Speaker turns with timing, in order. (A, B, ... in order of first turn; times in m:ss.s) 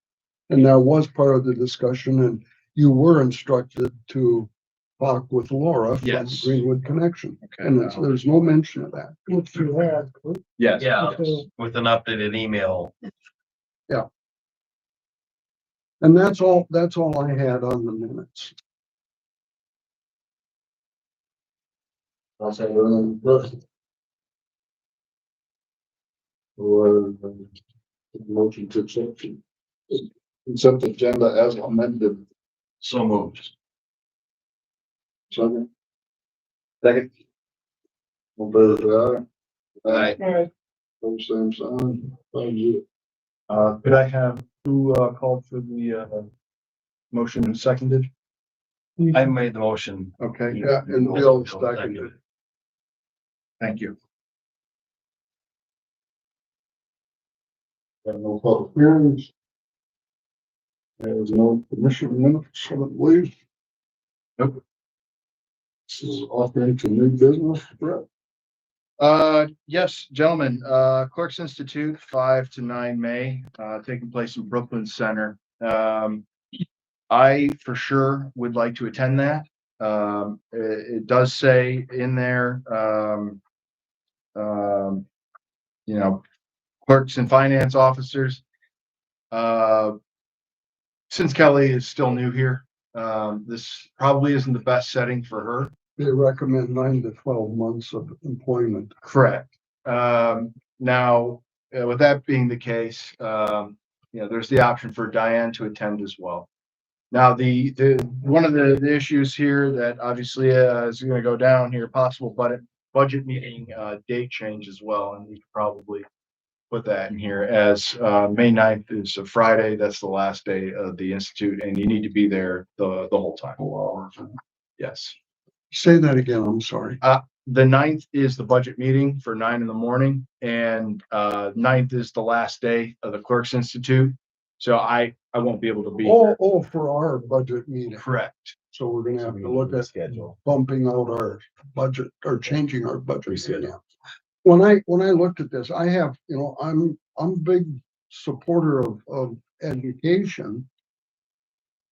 0:00.5-0:10.4 A
0:06.0-0:06.6 B
0:07.4-0:08.0 B
0:10.6-0:11.2 B
0:10.8-0:13.0 C
0:11.0-0:11.4 A
0:16.0-0:18.5 A
0:22.4-0:23.6 D
0:26.6-0:27.5 D
0:28.1-0:32.2 D
0:32.8-0:33.5 C
0:35.3-0:35.7 D
0:38.4-0:39.2 D
0:39.8-0:40.2 D
0:41.0-0:42.8 D
0:43.5-0:46.3 B
0:47.1-0:48.1 B
0:49.1-0:52.2 C
0:50.2-0:52.1 A
0:53.6-0:54.0 B
0:58.0-0:59.3 D
1:01.0-1:03.3 D
1:05.9-1:08.0 D
1:09.0-1:16.2 B
1:17.1-1:23.4 B
1:24.4-1:25.0 B
1:25.9-1:26.2 B
1:26.8-1:28.4 B
1:29.3-1:30.0 B
1:31.1-1:35.7 B
1:36.0-1:38.9 A
1:39.0-1:46.5 B
1:47.1-1:56.1 B
1:56.7-2:03.6 B
2:03.6-2:04.3 D
2:04.8-2:05.2 B
2:05.7-2:07.0 A
2:07.0-2:16.4 B
2:16.0-2:18.1 A
2:18.0-2:18.6 B
2:18.7-2:23.8 A
2:19.3-2:20.4 C
2:23.3-2:23.7 C
2:24.4-2:30.7 A